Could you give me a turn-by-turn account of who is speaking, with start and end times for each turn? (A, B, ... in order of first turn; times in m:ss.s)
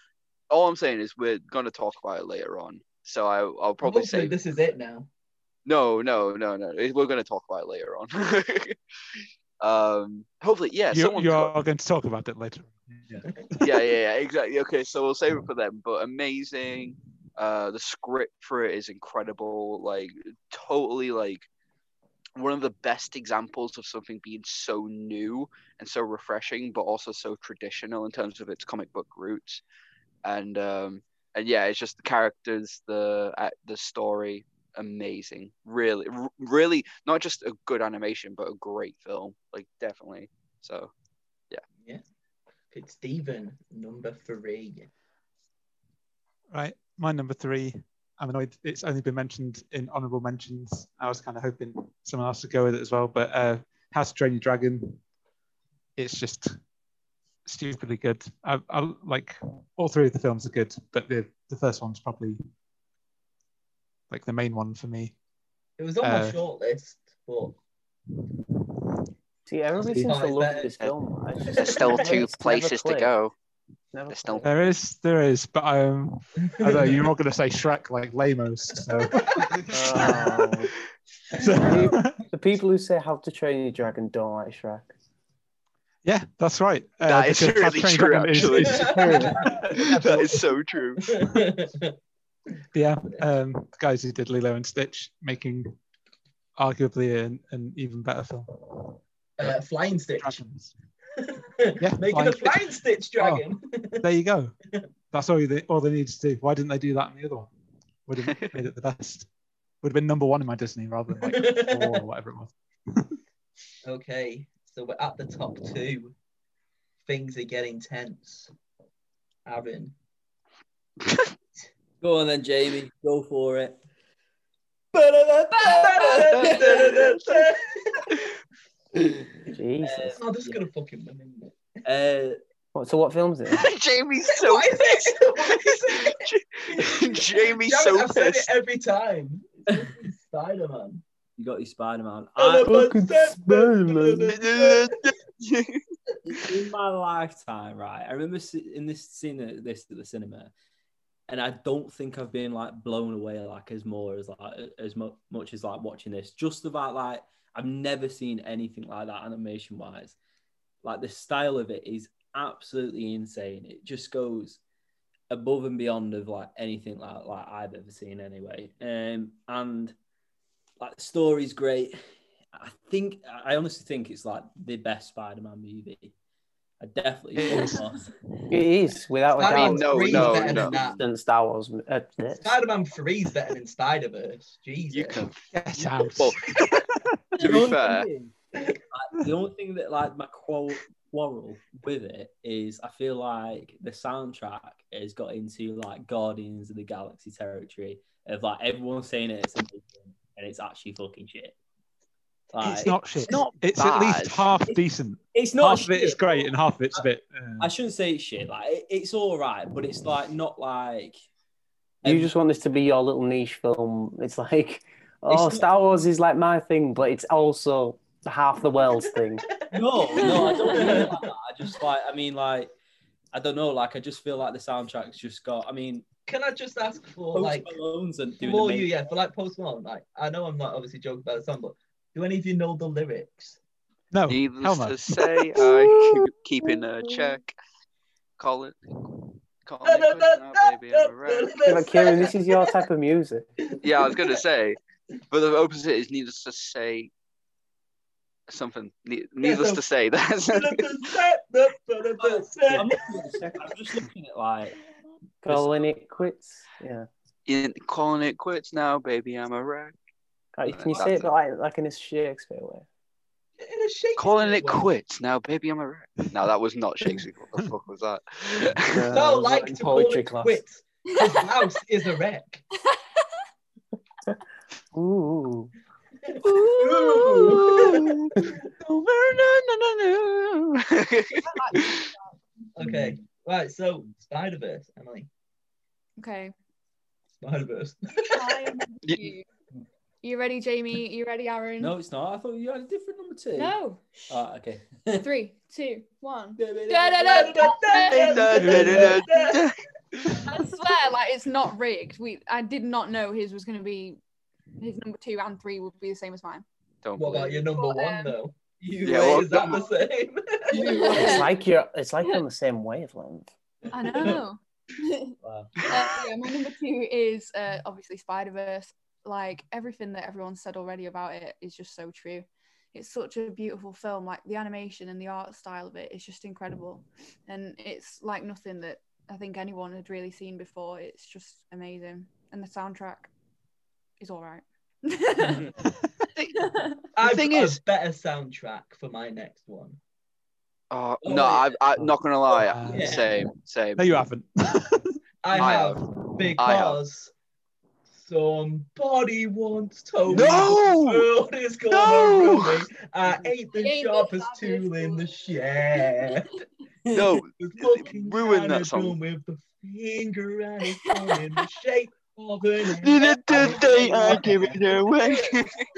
0:00.5-0:04.4 A
0:03.8-0:05.1 B
0:05.7-0:08.8 A
0:09.6-0:11.5 A
0:10.9-0:13.9 C
0:13.6-0:21.5 A
0:22.4-0:29.6 A
0:30.2-0:40.9 A
0:42.7-0:44.9 B
0:46.5-0:55.0 C
0:56.0-0:56.6 C
0:57.5-1:02.4 C
1:04.1-1:05.1 C
1:05.8-1:07.5 B
1:06.0-1:06.4 C
1:09.5-1:13.1 D
1:10.0-1:10.8 B
1:11.5-1:13.3 A
1:11.6-1:12.2 B
1:13.9-1:14.5 D
1:14.1-1:14.5 A
1:14.4-1:20.2 C
1:16.4-1:17.1 B
1:19.5-1:20.2 A
1:19.7-1:20.7 D
1:21.3-1:22.2 C
1:21.6-1:24.9 D
1:26.0-1:30.4 C
1:27.0-1:31.1 A
1:28.4-1:30.4 B
1:29.1-1:29.3 D
1:31.0-1:31.9 B
1:32.7-1:35.8 C
1:36.6-1:40.7 C
1:39.4-1:40.4 B
1:41.2-1:44.1 B
1:41.8-1:42.6 C
1:44.0-1:44.6 C
1:45.1-1:47.5 C
1:48.1-1:49.3 C
1:48.2-1:48.6 A
1:49.8-1:53.2 C
1:51.2-1:52.0 B
1:53.8-1:56.2 B
1:57.0-1:58.5 B
1:59.5-1:59.9 B
2:02.0-2:03.8 E
2:04.9-2:06.9 E
2:05.5-2:06.3 F
2:05.6-2:08.1 B
2:06.3-2:07.5 A
2:09.5-2:10.2 D
2:09.8-2:10.6 E
2:10.2-2:11.6 B
2:11.8-2:12.4 E
2:12.7-2:13.7 D
2:13.5-2:18.5 A
2:14.3-2:21.0 B
2:21.4-2:22.8 E
2:22.4-2:25.0 B
2:22.6-2:24.3 D
2:24.3-2:25.8 A
2:26.3-2:30.5 E
2:31.3-2:40.2 E
2:40.8-2:44.6 E
2:45.3-2:50.0 E
2:50.8-2:52.0 E
2:52.5-2:56.1 E
2:56.8-2:58.1 E
2:57.4-2:57.8 C
2:57.5-2:57.8 F
2:58.5-3:02.6 D
2:59.4-3:01.0 B
2:59.4-3:00.8 A
3:00.1-3:01.0 E
3:02.4-3:05.3 B
3:04.9-3:06.9 A
3:05.5-3:07.6 C
3:07.4-3:08.1 A
3:07.4-3:08.3 E
3:08.9-3:21.6 E
3:22.5-3:23.4 E
3:22.6-3:27.7 C
3:23.3-3:24.4 A
3:25.3-3:27.1 E
3:27.6-3:31.2 E
3:32.0-3:32.3 E
3:32.0-3:39.4 D
3:35.3-3:35.7 E
3:39.6-3:41.3 B
3:39.7-3:42.7 E
3:40.2-3:41.0 F
3:43.3-3:46.1 E
3:46.3-3:47.8 B
3:47.3-3:48.9 E
3:48.4-3:53.6 B
3:54.1-3:55.2 C
3:54.3-3:57.6 A
3:55.6-3:56.7 D
3:58.4-3:58.8 A
3:59.6-4:01.6 A
3:59.8-4:02.7 B
4:01.6-4:03.5 D
4:03.7-4:04.4 B
4:03.8-4:04.8 A
4:05.3-4:07.1 A
4:08.5-4:11.1 A
4:09.4-4:09.8 B
4:10.5-4:13.0 B
4:12.2-4:14.8 E
4:15.4-4:17.1 D
4:15.5-4:15.8 E
4:17.5-4:20.0 A
4:20.6-4:22.9 D
4:20.7-4:21.3 A
4:23.6-4:24.9 B
4:24.2-4:29.1 A
4:28.8-4:30.6 D
4:29.1-4:32.6 B
4:31.1-4:31.6 F
4:32.8-4:33.3 F
4:34.9-4:35.7 D
4:36.2-4:38.6 B
4:36.4-4:42.1 A
4:41.4-4:42.4 F
4:42.8-4:45.3 B
4:42.8-4:43.1 E
4:46.2-4:46.5 F
4:47.4-4:48.8 B
4:48.2-4:49.5 F
4:50.2-4:51.9 F
4:51.8-4:53.8 E
4:53.6-4:54.4 F
4:54.3-4:55.3 E
4:55.1-4:59.3 F
4:56.6-4:57.8 E
4:57.2-4:59.6 B
4:58.1-5:00.4 A
5:00.3-5:04.2 F
5:04.8-5:06.6 F
5:07.0-5:07.5 A
5:07.2-5:11.0 B
5:07.3-5:08.4 F
5:08.8-5:09.8 E
5:09.0-5:09.9 A
5:10.7-5:11.5 E
5:10.8-5:11.5 F
5:11.1-5:13.5 D
5:13.9-5:15.4 F
5:15.4-5:15.7 E
5:15.8-5:16.2 A
5:15.9-5:33.3 F
5:34.2-5:35.7 F
5:36.5-5:37.0 F
5:37.2-5:40.0 B
5:37.2-5:37.8 A
5:40.9-5:44.2 A
5:41.2-5:41.8 E
5:42.6-5:43.3 C
5:42.9-5:43.3 E
5:44.0-5:45.8 C
5:45.4-5:47.3 B
5:45.6-5:46.0 A
5:46.6-5:47.0 A
5:48.1-5:56.5 B
5:50.3-5:51.3 A
5:51.9-5:52.9 A
5:53.7-5:56.5 F
5:57.1-5:57.4 E
5:57.1-5:59.2 A
5:57.6-6:04.9 B
6:03.0-6:05.8 A
6:03.6-6:04.7 E